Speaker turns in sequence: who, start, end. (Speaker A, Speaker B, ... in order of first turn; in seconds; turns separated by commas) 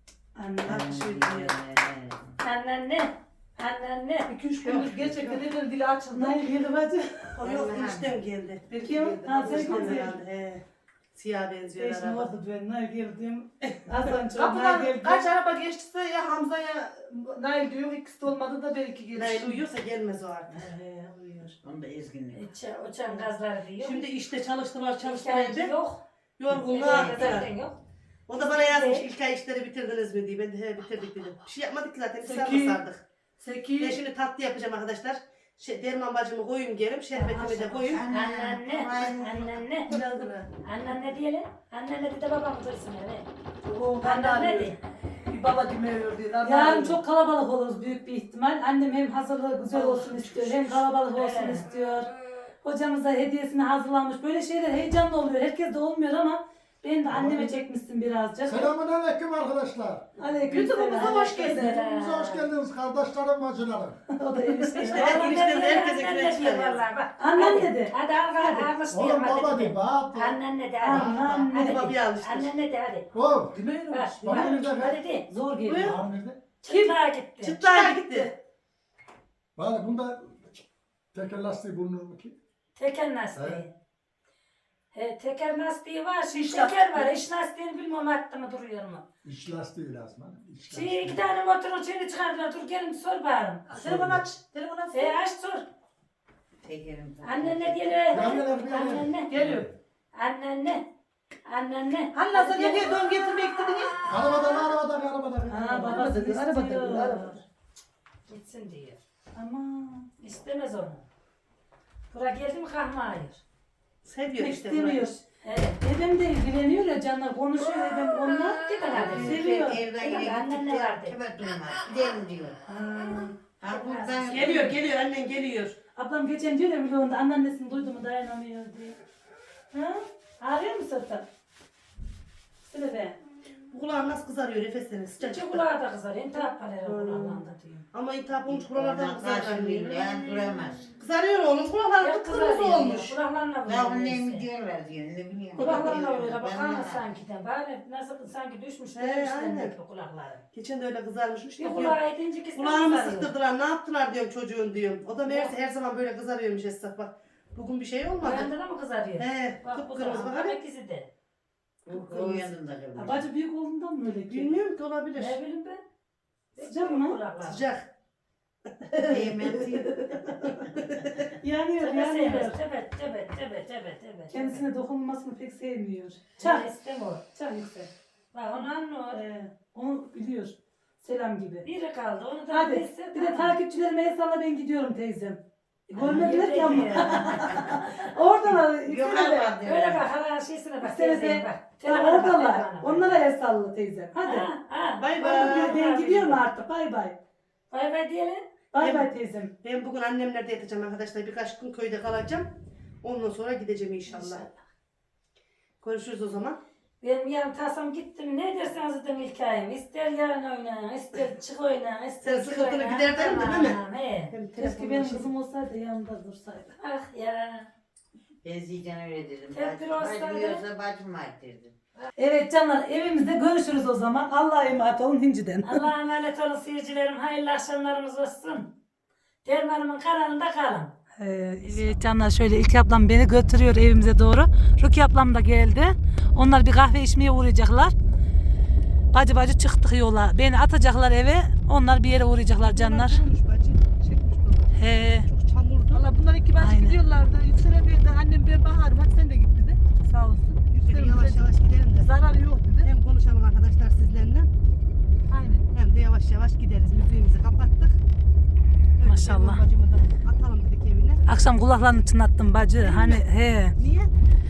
Speaker A: 0.3-1.5, Speaker B: 0.6-2.3, Speaker C: 2.4-4.3, Speaker D: 4.3-6.6, Speaker B: 4.6-5.4, Speaker A: 6.1-7.4, Speaker E: 7.4-12.3, Speaker B: 7.5-8.1, Speaker D: 8.8-9.9, Speaker A: 8.8-10.2, Speaker A: 11.8-15.3, Speaker E: 14.3-16.6, Speaker D: 14.4-14.9, Speaker D: 16.5-19.6, Speaker E: 19.1-20.6, Speaker D: 20.6-21.5, Speaker B: 21.6-22.4, Speaker C: 22.3-24.1, Speaker E: 23.8-25.7, Speaker C: 25.0-26.0, Speaker E: 26.4-27.5, Speaker C: 26.7-27.8, Speaker E: 28.3-33.0, Speaker C: 28.5-29.0, Speaker D: 32.2-32.8, Speaker D: 33.4-34.0, Speaker E: 33.8-38.0, Speaker D: 37.1-38.0, Speaker B: 37.9-39.4, Speaker C: 38.1-39.9, Speaker E: 39.0-40.5, Speaker A: 39.9-40.3, Speaker C: 40.6-43.3, Speaker D: 43.6-44.7, Speaker C: 44.0-44.8, Speaker D: 45.2-47.0, Speaker A: 46.4-58.7, Speaker D: 49.7-50.5, Speaker C: 51.1-51.6, Speaker F: 57.1-57.6, Speaker F: 58.5-64.0, Speaker A: 60.2-61.8, Speaker D: 60.5-61.7, Speaker C: 61.0-62.4, Speaker A: 64.1-65.5, Speaker E: 64.7-66.8, Speaker F: 64.8-65.2, Speaker C: 65.0-73.1, Speaker A: 67.2-67.9, Speaker F: 68.6-71.4, Speaker A: 70.8-71.6, Speaker E: 71.1-72.5, Speaker F: 73.1-75.0, Speaker D: 73.5-74.6, Speaker C: 73.9-75.3, Speaker A: 75.3-75.9, Speaker E: 75.6-76.0, Speaker F: 75.8-76.4, Speaker C: 76.6-77.6, Speaker D: 76.7-76.9, Speaker E: 77.4-78.3, Speaker D: 77.7-78.2, Speaker F: 79.5-82.3, Speaker C: 82.8-83.7, Speaker F: 83.3-83.6, Speaker C: 84.9-89.0, Speaker F: 89.2-91.2, Speaker C: 90.7-93.8, Speaker D: 93.7-95.2, Speaker F: 93.8-94.2, Speaker C: 94.9-95.7, Speaker B: 96.6-98.0, Speaker C: 97.2-99.3, Speaker F: 98.1-99.7, Speaker D: 99.3-99.7, Speaker C: 100.1-100.8, Speaker C: 101.5-103.0, Speaker D: 102.1-104.0, Speaker F: 104.0-106.0, Speaker D: 105.5-107.4, Speaker A: 105.5-107.4, Speaker C: 108.3-109.0, Speaker A: 109.3-110.1, Speaker C: 110.2-111.0, Speaker C: 112.1-113.4, Speaker E: 114.0-115.1, Speaker A: 114.3-115.2, Speaker C: 115.4-115.8, Speaker A: 115.8-118.7, Speaker C: 118.6-119.4, Speaker B: 118.9-122.6, Speaker A: 119.2-119.8, Speaker C: 120.0-121.2, Speaker A: 122.7-123.4, Speaker B: 123.6-124.8, Speaker C: 123.7-124.5, Speaker E: 124.2-125.8, Speaker A: 126.0-129.0, Speaker A: 129.7-131.2, Speaker A: 132.6-133.2, Speaker E: 133.7-135.6, Speaker C: 135.2-137.8, Speaker E: 136.8-143.2, Speaker B: 138.7-140.9, Speaker C: 142.0-144.5, Speaker B: 143.7-147.0, Speaker E: 145.6-146.1, Speaker C: 145.6-150.4, Speaker E: 148.9-149.7, Speaker E: 150.5-152.0, Speaker C: 151.6-153.3, Speaker E: 152.5-158.5, Speaker C: 155.3-155.5, Speaker C: 158.2-161.1, Speaker E: 159.2-160.6, Speaker B: 161.9-163.3, Speaker E: 161.9-162.5, Speaker A: 162.9-164.5, Speaker E: 164.3-165.4, Speaker C: 165.2-165.8, Speaker C: 166.6-167.6, Speaker A: 166.6-167.2, Speaker E: 167.4-167.8, Speaker E: 168.8-171.4, Speaker B: 169.0-170.5, Speaker A: 171.4-172.6, Speaker C: 171.8-174.6, Speaker A: 174.3-176.7, Speaker C: 176.4-177.2, Speaker A: 177.3-177.9, Speaker C: 178.3-179.2, Speaker A: 179.1-181.7, Speaker C: 181.6-183.5, Speaker A: 182.5-189.5, Speaker B: 186.0-187.6, Speaker C: 186.0-187.5, Speaker B: 188.6-190.0, Speaker C: 189.6-193.2, Speaker A: 190.8-194.5, Speaker C: 194.2-196.4, Speaker E: 195.0-195.8, Speaker A: 195.2-197.1, Speaker C: 197.7-198.5, Speaker A: 198.7-199.5, Speaker E: 198.8-202.5, Speaker E: 203.0-204.4, Speaker C: 204.1-204.5, Speaker E: 205.8-206.6, Speaker C: 207.0-214.3, Speaker E: 212.2-213.8, Speaker E: 214.3-215.3, Speaker A: 214.6-216.8, Speaker C: 216.8-217.7, Speaker B: 218.4-221.7, Speaker C: 219.5-220.6, Speaker A: 222.2-225.9, Speaker C: 225.6-228.7, Speaker C: 229.4-230.9, Speaker A: 231.1-237.9, Speaker A: 239.1-243.2, Speaker E: 242.6-244.3, Speaker D: 244.0-244.6, Speaker A: 244.7-245.3, Speaker E: 245.2-246.1, Speaker D: 245.9-252.9, Speaker A: 246.6-247.0, Speaker E: 250.8-252.1, Speaker E: 252.8-254.5, Speaker D: 255.3-255.6, Speaker E: 255.7-258.0, Speaker E: 259.0-261.2, Speaker A: 259.0-259.6, Speaker A: 261.2-263.8, Speaker E: 262.8-263.2, Speaker E: 263.8-264.1